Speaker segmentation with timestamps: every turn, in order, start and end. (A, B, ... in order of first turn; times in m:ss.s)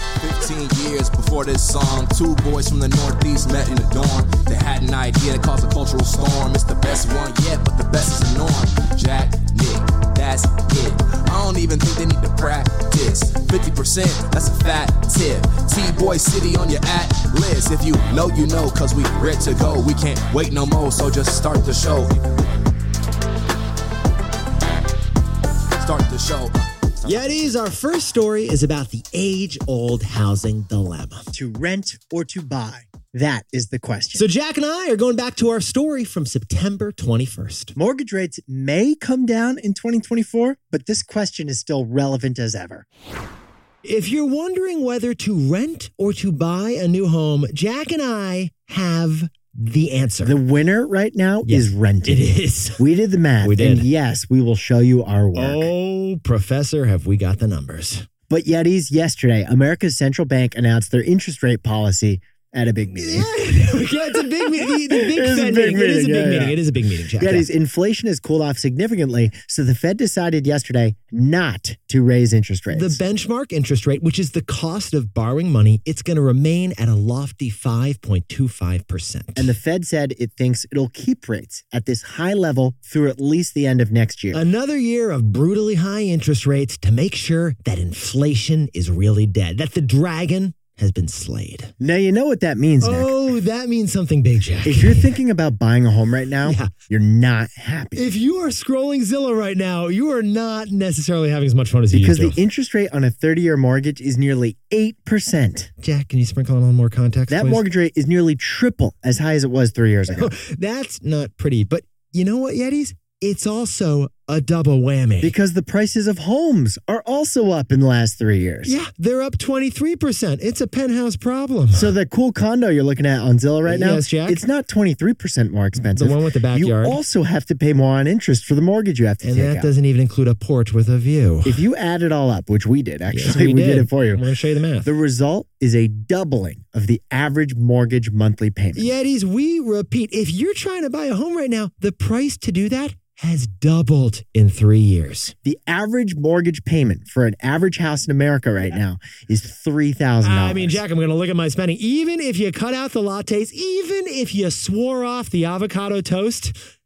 0:00.2-0:22.4 A
0:25.8-0:27.4 A
0:27.0-0:31.3 B
0:31.3-0:34.2 C
0:34.1-0:37.7 B
0:37.7-0:42.8 C
0:43.8-0:50.4 B
0:50.2-0:55.7 C
0:51.4-0:52.8 B
0:53.4-0:53.9 B
0:55.3-0:58.1 B
0:58.3-1:03.3 C
1:02.9-1:07.4 B
1:03.8-1:06.6 C
1:07.2-1:13.0 C
1:12.7-1:19.5 B
1:19.4-1:24.4 C
1:24.3-1:31.7 B
1:31.8-1:33.1 C
1:32.8-1:35.1 B
1:34.6-1:38.0 C
1:36.4-1:36.7 B
1:38.0-1:42.4 B
1:41.9-1:45.7 C
1:45.8-1:47.6 B
1:47.3-1:50.3 C
1:50.1-1:55.3 B
1:55.2-1:58.7 C
1:58.6-2:01.9 B
2:01.7-2:09.7 C
2:03.6-2:04.4 B
2:05.9-2:07.0 B
2:09.2-2:11.6 B
2:11.4-2:14.2 C
2:13.1-2:14.9 B
2:14.8-2:18.9 C
2:18.7-2:25.3 B
2:25.4-2:30.8 C
2:30.2-2:36.5 B